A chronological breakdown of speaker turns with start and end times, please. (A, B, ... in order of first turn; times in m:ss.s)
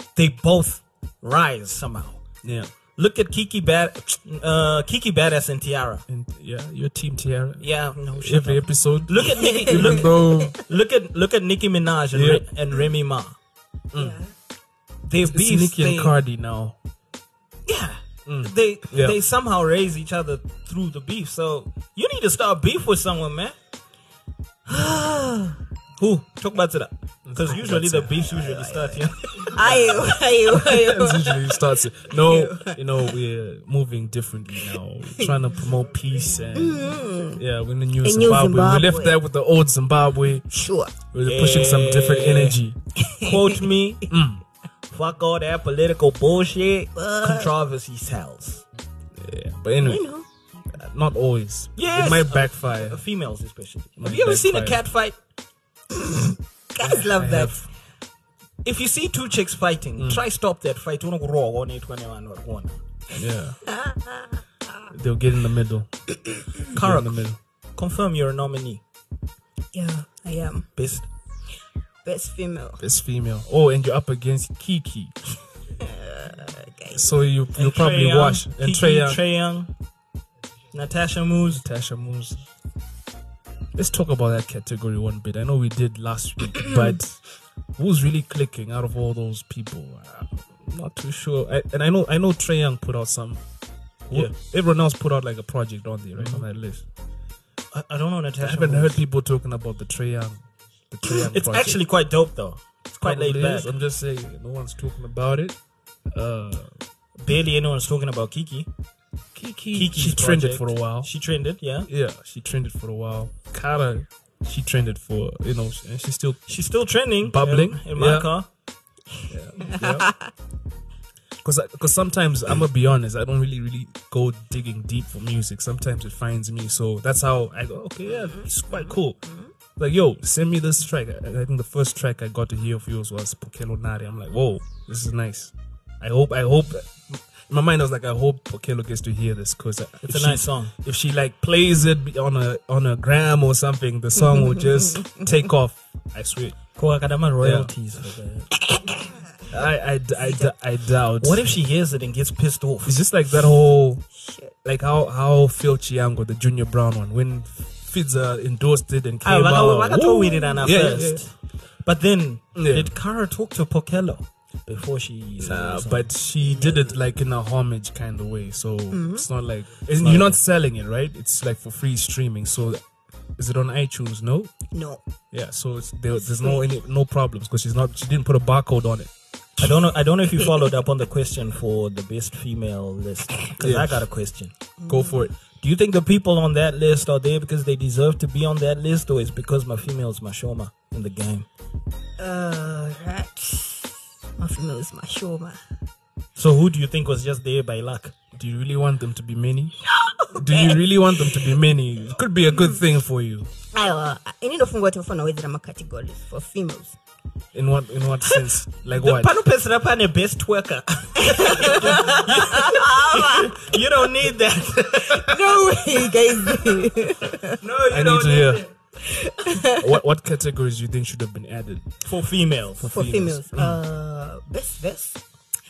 0:00.2-0:02.2 A
0:02.4-0:02.7 B
0:03.0-0:06.0 A
0:06.1-0:10.6 B
0:07.6-0:13.4 A
0:09.4-0:10.4 C
0:12.1-0:12.4 B
0:13.9-0:14.2 B
0:14.0-0:14.3 C
0:15.0-0:16.1 A
0:15.2-0:16.8 B
0:17.7-0:23.6 A
0:18.2-0:19.2 B
0:24.7-0:25.6 C
0:26.0-0:30.1 A
0:27.2-0:28.2 B
0:28.2-0:33.1 C
0:30.4-0:40.5 B
0:36.5-0:37.4 C
0:38.0-0:39.2 C
0:40.5-0:40.9 C
0:41.1-0:42.8 B
0:41.2-0:42.6 A
0:43.0-0:43.5 C
0:43.2-0:44.1 A
0:44.1-0:44.4 B
0:44.9-0:48.6 A
0:47.0-0:47.5 C
0:49.2-0:50.0 B
0:49.8-0:50.2 C
0:50.7-0:53.0 B
0:51.8-0:55.2 A
0:54.0-0:54.8 B
0:56.0-0:57.6 C
0:56.8-0:57.7 B
0:58.6-1:02.8 A
1:00.0-1:00.2 B
1:03.1-1:03.6 B
1:03.7-1:04.8 C
1:04.9-1:05.9 B
1:06.7-1:08.8 A
1:06.7-1:07.4 B
1:09.7-1:10.7 C
1:10.8-1:11.1 A
1:12.0-1:12.8 C
1:12.8-1:15.1 B
1:15.8-1:17.0 C
1:16.9-1:19.2 B
1:17.6-1:19.7 A
1:20.7-1:21.6 A
1:21.5-1:22.4 B
1:23.7-1:27.2 B
1:27.8-1:33.4 B
1:34.1-1:36.8 B
1:36.2-1:36.4 A
1:37.7-1:39.0 A
1:38.4-1:41.8 B
1:41.1-1:43.7 A
1:43.0-1:45.6 B
1:46.1-1:46.7 B
1:47.2-1:48.7 A
1:49.3-1:51.1 B
1:49.7-1:51.9 A
1:51.8-1:56.4 B
1:56.5-1:58.5 A
1:57.2-1:58.3 B
1:59.3-2:00.1 B
1:59.6-2:00.3 C
2:01.4-2:09.2 B
2:08.1-2:09.5 C
2:09.8-2:26.6 B
2:20.1-2:20.7 A
2:24.2-2:25.2 C
2:26.8-2:28.5 A
2:27.4-2:27.7 B
2:29.5-2:31.4 B
2:30.2-2:30.5 C
2:31.2-2:33.0 A
2:32.8-2:34.0 B
2:34.1-2:34.5 C
2:34.6-2:41.2 B
2:39.2-2:46.1 A
2:42.6-2:42.9 B
2:45.4-2:52.8 B
2:46.5-2:46.9 C
2:48.9-2:49.3 C
2:50.0-2:50.4 A
2:53.4-2:54.5 B
2:54.7-2:55.0 C
2:55.3-2:59.1 B
2:56.2-2:56.7 C
2:59.6-3:04.5 A
3:03.6-3:04.0 B
3:04.8-3:05.3 C
3:04.8-3:05.3 B
3:05.6-3:11.5 A
3:12.2-3:15.6 C
3:16.4-3:18.1 A
3:18.3-3:19.8 B
3:19.9-3:21.5 C
3:20.3-3:23.5 B
3:23.7-3:27.0 C
3:27.5-3:29.3 B
3:28.9-3:35.4 A
3:31.2-3:33.7 C
3:35.1-3:37.6 C
3:37.6-3:38.7 A
3:37.8-3:38.6 B
3:39.0-3:39.9 C
3:39.7-3:41.9 B
3:42.0-3:42.9 A
3:42.8-3:43.8 B
3:42.8-3:45.2 C